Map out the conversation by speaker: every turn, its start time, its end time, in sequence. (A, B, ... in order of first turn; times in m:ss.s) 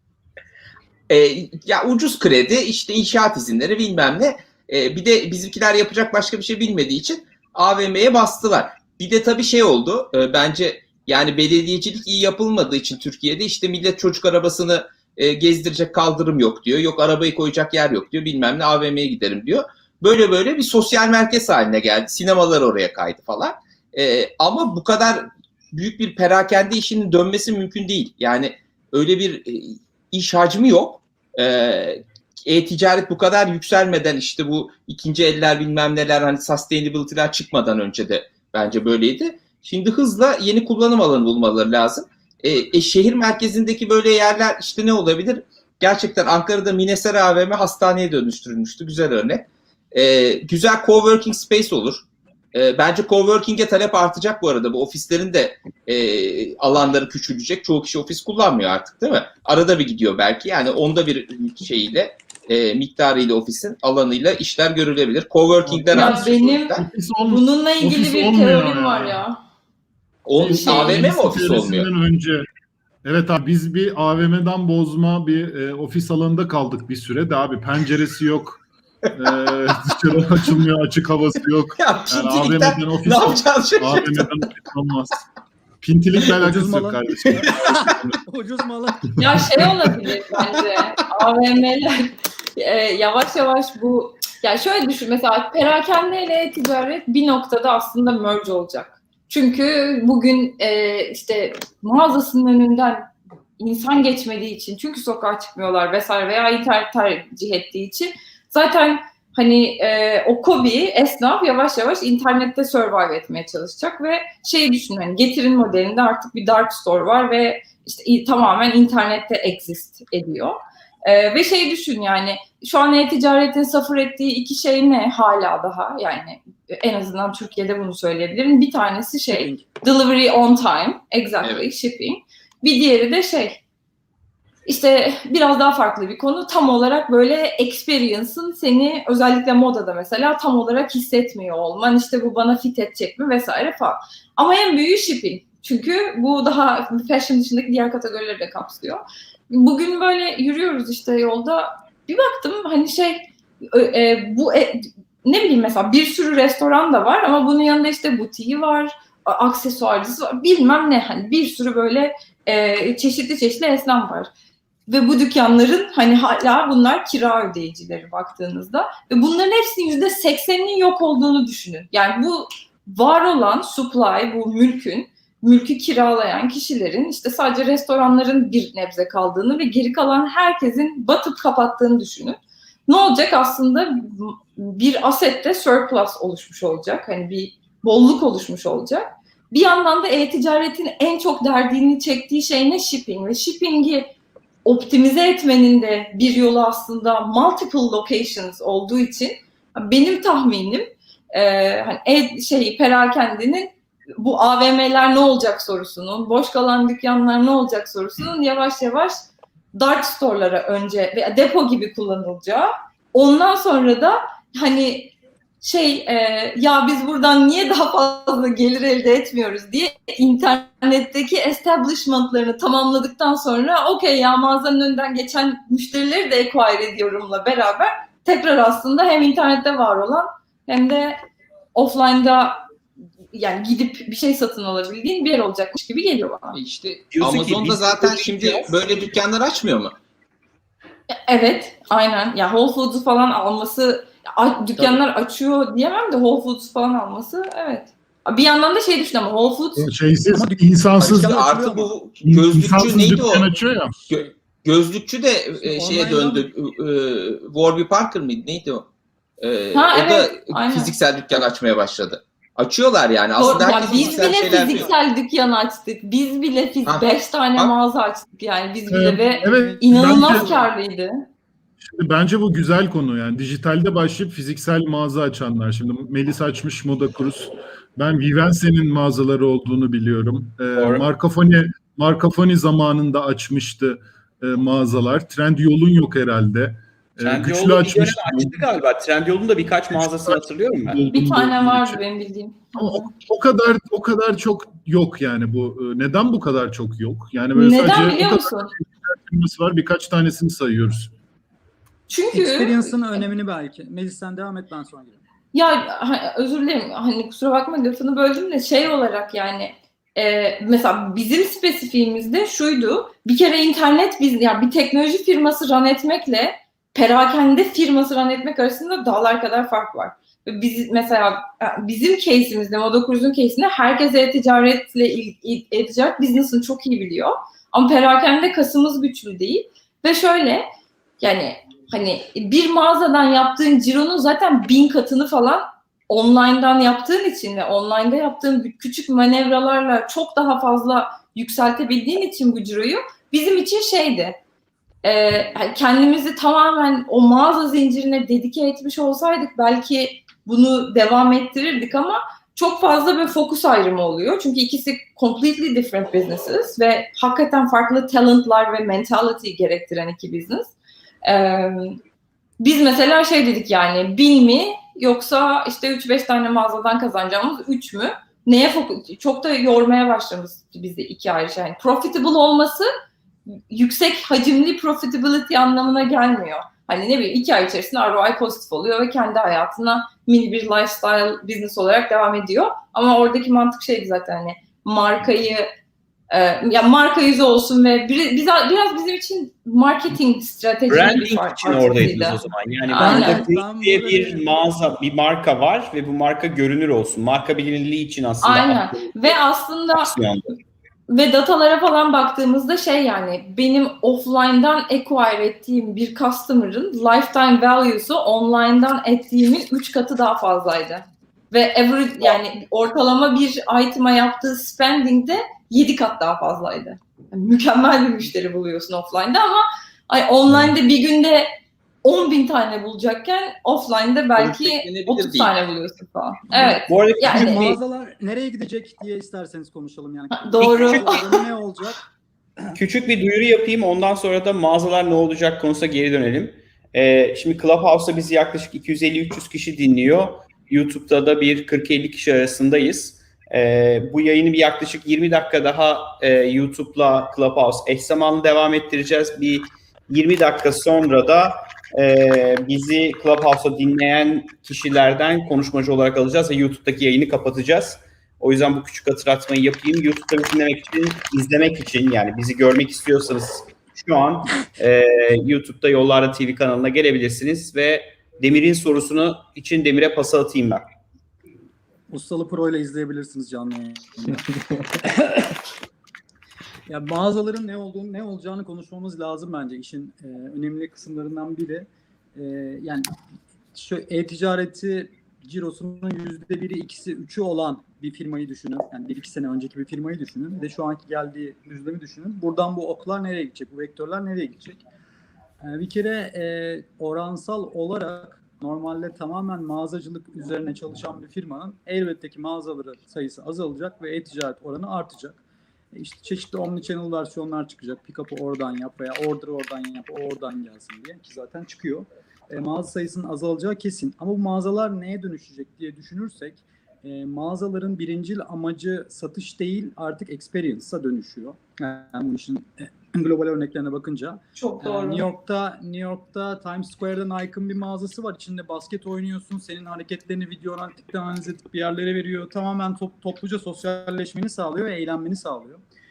0:01.1-1:06.8 A
1:05.6-1:09.2 B
1:05.9-1:09.4 C
1:10.3-1:11.9 A
1:10.3-1:12.5 B
1:13.0-1:18.6 B
1:19.1-1:25.2 B
1:21.8-1:24.4 A
1:25.8-1:28.2 B
1:26.2-1:29.4 D
1:29.2-2:13.6 C
1:29.2-1:29.8 B
1:30.3-1:30.8 A
2:09.3-2:09.6 D
2:14.6-2:44.3 C
2:44.9-3:14.1 C
3:14.6-3:29.1 C
3:29.7-3:51.2 C
3:51.7-3:52.6 C
3:53.3-3:56.6 C
3:56.5-4:00.0 A
3:57.1-3:58.8 E
4:01.3-4:09.9 C
4:09.8-4:11.4 B
4:10.3-4:11.9 D
4:11.0-4:13.4 A
4:12.2-4:13.9 B
4:13.9-4:14.3 D
4:14.1-4:18.9 A
4:15.6-4:16.5 D
4:19.4-4:24.9 A
4:19.7-4:20.9 C
4:23.4-4:31.2 C
4:23.4-4:25.0 D
4:26.8-4:27.7 A
4:28.9-4:30.5 B
4:29.2-4:30.7 D
4:31.8-4:48.6 B
4:40.7-4:41.0 E
4:47.2-4:51.0 E
4:49.9-4:52.0 B
4:51.1-4:52.6 C
4:52.7-5:01.1 B
4:57.5-4:58.7 C
5:02.1-5:03.0 C
5:02.3-5:05.2 D
5:05.5-5:30.6 C
5:31.2-5:44.4 C
5:45.0-6:00.7 C
6:01.2-6:02.0 C
6:02.6-6:12.9 C
6:13.5-6:25.7 C
6:26.3-6:33.4 C
6:30.9-6:39.4 E
6:33.0-6:34.4 D
6:38.4-6:40.1 C
6:39.9-6:40.6 E
6:41.1-7:01.5 C
7:02.0-7:07.7 C
7:04.4-7:05.5 A
7:06.5-7:12.0 D
7:06.8-7:07.8 E
7:10.4-7:11.3 C
7:10.6-7:11.2 E
7:12.7-7:50.9 E
7:52.1-7:54.4 D
7:55.0-7:55.5 D
7:56.9-8:03.1 D
8:03.7-8:14.8 D
8:15.6-8:25.4 D
8:25.9-8:55.8 D
8:44.6-8:45.2 C